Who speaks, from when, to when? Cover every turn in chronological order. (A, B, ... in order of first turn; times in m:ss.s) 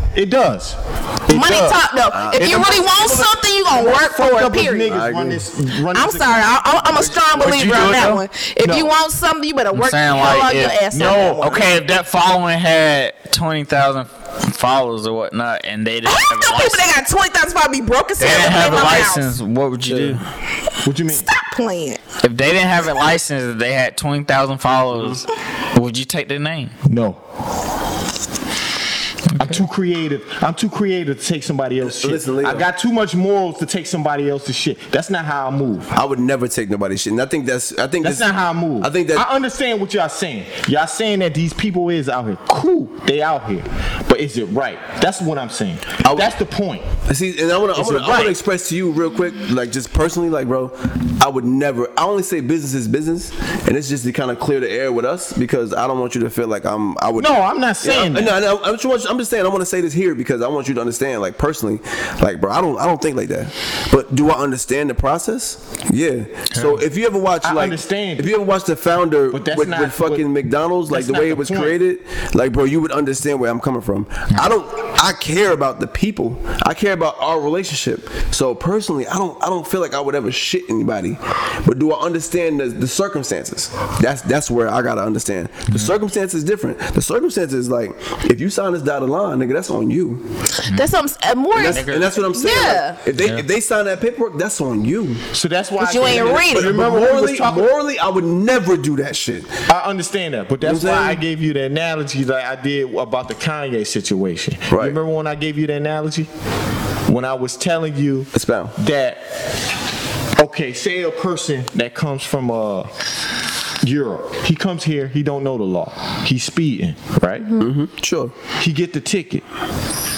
0:00.1-0:01.8 A
0:01.3-0:05.0 B
0:02.1-0:03.2 C
0:03.7-0:06.5 A
0:04.9-0:05.5 C
0:05.9-0:11.6 B
0:07.3-0:08.2 D
0:08.6-0:08.9 A
0:09.7-0:16.9 D
0:10.9-0:11.7 A
0:16.0-0:19.3 B
0:18.2-0:20.2 D
0:19.8-0:20.2 C
0:20.8-0:21.3 A
0:21.1-0:22.0 B
0:22.2-0:26.7 D
0:26.8-0:27.2 A
0:29.3-0:29.6 D
0:29.4-0:35.9 A
0:31.8-0:32.7 C
0:35.9-0:39.2 C
0:38.0-0:46.9 A
0:46.0-0:46.3 C
0:47.0-1:30.3 C
0:47.7-0:48.4 A
0:57.2-0:58.3 A
1:06.5-1:06.8 D
1:07.4-1:08.3 A
1:09.3-1:10.3 A
1:10.9-1:11.8 A
1:30.6-1:33.0 B
1:31.5-1:35.2 C
1:31.7-1:32.0 A
1:33.2-1:33.4 D
1:35.3-1:37.7 A
1:35.8-1:36.7 B
1:36.0-1:39.6 C
1:39.7-1:46.3 A
1:40.6-1:41.2 C
1:44.7-1:45.0 C
1:47.1-1:49.2 A
1:48.3-1:48.7 C
1:50.4-1:52.9 A
1:53.8-1:57.5 A
1:57.6-1:58.3 C
1:58.6-1:59.4 A